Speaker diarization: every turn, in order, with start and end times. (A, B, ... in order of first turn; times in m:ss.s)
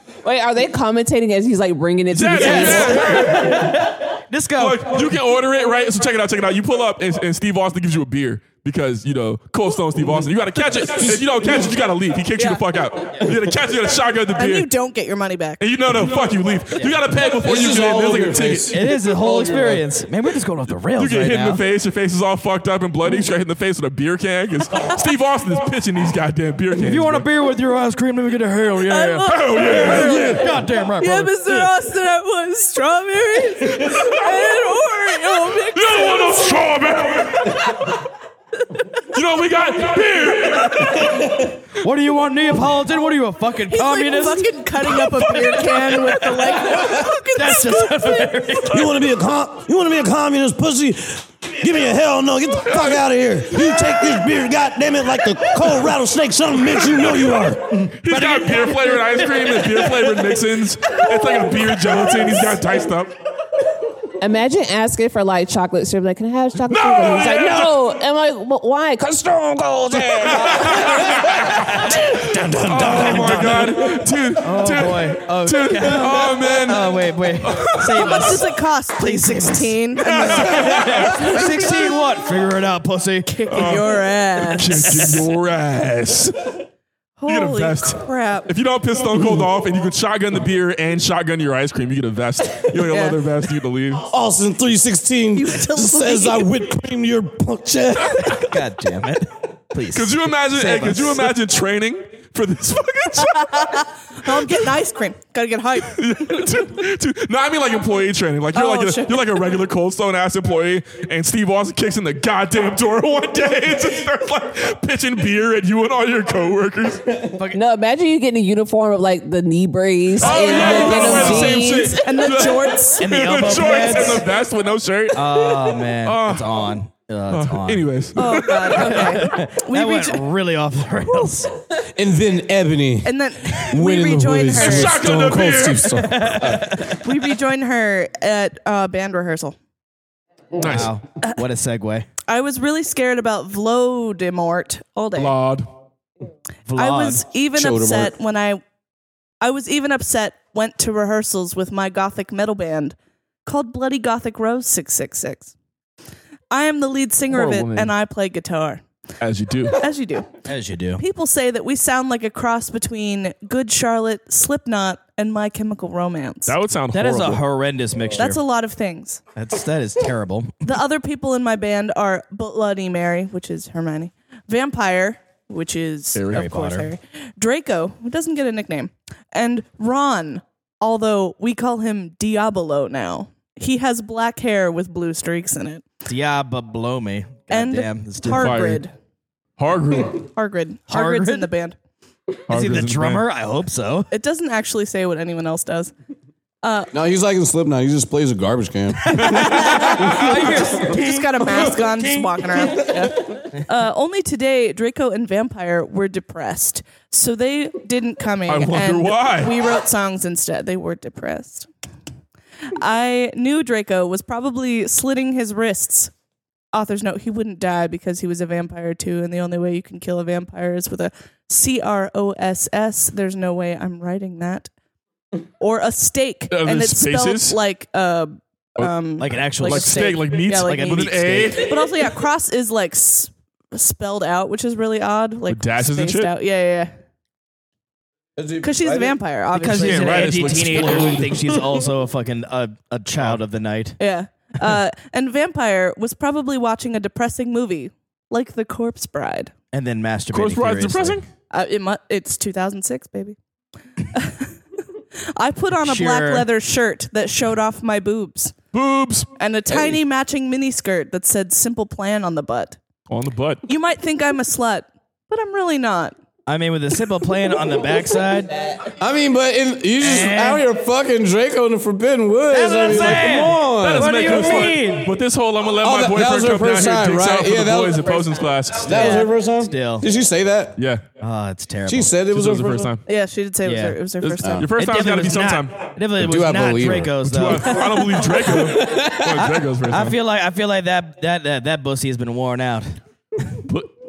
0:00.2-0:03.2 A
0:02.1-0:03.9 B
0:02.4-0:04.9 C
0:04.6-0:14.7 B
0:14.4-0:15.6 D
0:15.6-0:18.8 B
0:17.4-0:19.8 E
0:18.7-0:21.6 C
0:21.0-0:27.2 B
0:26.7-0:31.7 C
0:28.8-0:36.7 D
0:29.3-0:30.5 B
0:35.7-0:37.7 B
0:39.1-0:41.2 B
0:40.6-0:46.8 C
0:43.7-0:48.4 D
0:47.3-0:48.9 C
0:48.7-0:57.9 E
0:53.6-0:54.0 B
0:57.9-1:03.1 B
0:58.0-1:00.1 C
1:04.2-1:10.9 A
1:06.7-1:07.7 B
1:10.0-1:14.0 E
1:10.1-1:18.2 B
1:13.1-1:13.4 C
1:14.4-1:23.3 C
1:17.9-1:21.5 D
1:20.0-1:22.0 B
1:23.3-1:25.3 D
1:23.5-1:26.6 B
1:27.2-1:28.5 D
1:27.3-1:34.0 B
1:32.9-1:33.2 D
1:34.0-1:38.4 E
1:35.3-1:36.5 D
1:38.2-1:41.3 C
1:39.9-1:43.8 B
1:43.2-1:46.5 D
1:45.9-1:57.2 B
1:48.5-1:49.2 D
1:57.3-1:57.6 C
1:57.5-2:02.2 A
2:00.2-2:06.6 B
2:00.5-2:03.1 D
2:03.0-2:04.2 C
2:05.1-2:07.9 C
2:07.3-2:09.4 B
2:08.2-2:10.3 D
2:08.7-2:11.5 C
2:11.8-2:16.8 E
2:13.0-2:15.0 D
2:14.5-2:16.0 B
2:16.0-2:17.1 C
2:16.8-2:19.6 D
2:20.6-2:20.9 B
2:20.6-2:22.1 C
2:22.3-2:25.3 D
2:25.1-2:25.7 B
2:26.6-2:27.2 C
2:26.8-2:28.6 D
2:27.5-2:28.1 E
2:29.4-2:35.5 D
2:36.5-2:38.8 D
2:37.3-2:37.9 B
2:39.2-2:39.8 B
2:39.7-2:40.3 D
2:40.4-2:41.0 C
2:41.0-2:46.5 D
2:46.4-2:47.4 B
2:46.9-2:48.4 C
2:48.2-2:49.2 D
2:49.4-2:50.6 C
2:50.6-3:05.9 D
2:56.1-2:56.4 B
2:56.3-2:56.9 C
3:06.0-3:08.7 C
3:07.5-3:08.9 D
3:08.3-3:08.8 B
3:09.6-3:10.2 B
3:10.1-3:11.8 D
3:10.9-3:11.5 C
3:12.5-3:13.2 B
3:12.5-3:14.1 C
3:14.1-3:15.9 D
3:16.6-3:16.9 D
3:16.9-3:19.9 E
3:19.1-3:21.9 C
3:19.2-3:20.2 B
3:19.5-3:31.7 D
3:28.5-3:29.6 B
3:32.7-3:36.1 D
3:36.7-3:44.7 D
3:45.6-3:50.9 D
3:46.5-3:47.6 B
3:49.2-3:51.7 C
3:49.6-3:51.9 B
3:51.6-3:56.9 D
3:55.5-3:56.3 B
3:58.4-3:59.1 E
3:58.6-4:00.9 D
3:59.5-4:04.0 C
3:59.7-4:01.4 B
4:04.0-4:09.5 D
4:09.7-4:11.2 C
4:10.3-4:11.2 B
4:11.5-4:13.4 D
4:14.1-4:14.5 D
4:15.4-4:18.5 D
4:15.8-4:16.5 C
4:18.7-4:19.9 B
4:19.4-4:22.8 D
4:23.1-4:23.6 B
4:23.6-4:26.1 D
4:26.5-4:28.7 C
4:28.9-4:34.8 E
4:30.0-4:30.6 C
4:32.5-4:35.1 C
4:33.7-4:39.2 B
4:35.8-4:40.8 E
4:38.9-4:39.3 D
4:39.6-4:40.1 C
4:40.8-4:41.0 B
4:41.2-4:42.1 C
4:41.9-4:42.9 E
4:42.3-4:43.0 B
4:43.0-4:44.6 D
4:43.6-4:44.0 C
4:44.2-4:45.9 B
4:44.4-4:44.7 E
4:44.7-4:53.6 C
4:46.2-4:47.2 E
4:47.2-4:50.2 B
4:47.8-4:48.0 D
4:53.7-4:53.9 B